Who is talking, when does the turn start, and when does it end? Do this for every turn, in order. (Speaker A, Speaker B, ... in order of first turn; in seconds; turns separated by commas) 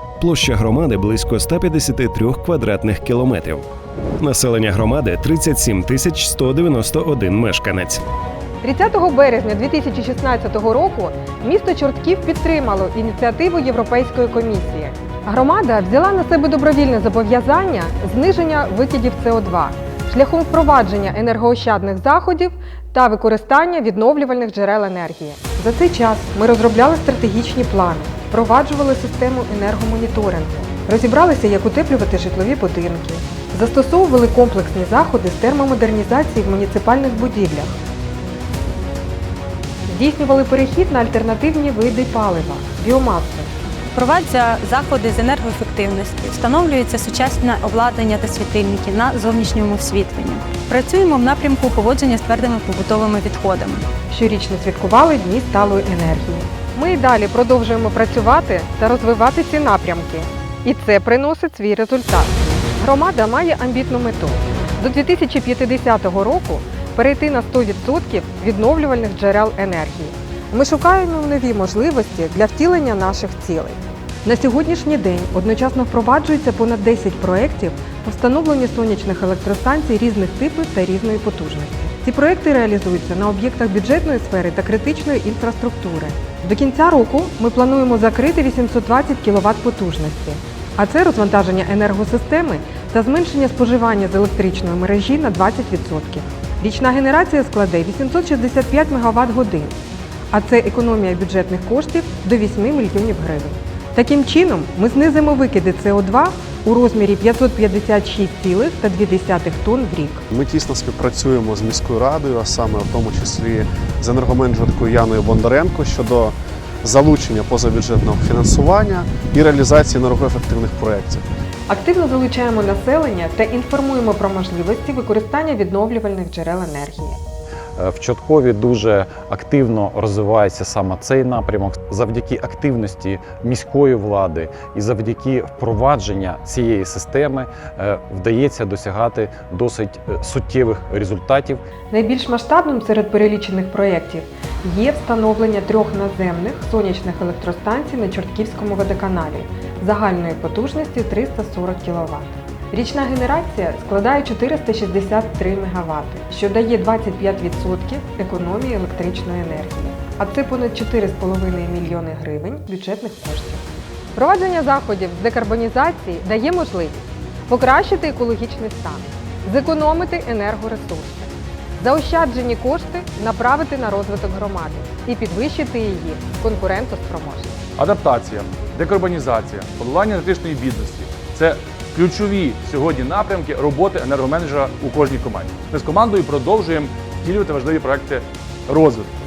Speaker A: 0.2-3.6, Speaker A: 4.2-8.0, Speaker B: 8.6-37.8, Speaker B: 39.9-43.5, Speaker C: 43.9-53.8, Speaker B: 54.1-99.8, Speaker B: 100.3-110.2, Speaker D: 110.3-121.2, Speaker B: 121.7-127.2, Speaker E: 127.8-141.6, Speaker B: 141.9-163.6, Speaker B: 164.1-177.6, Speaker F: 177.8-189.1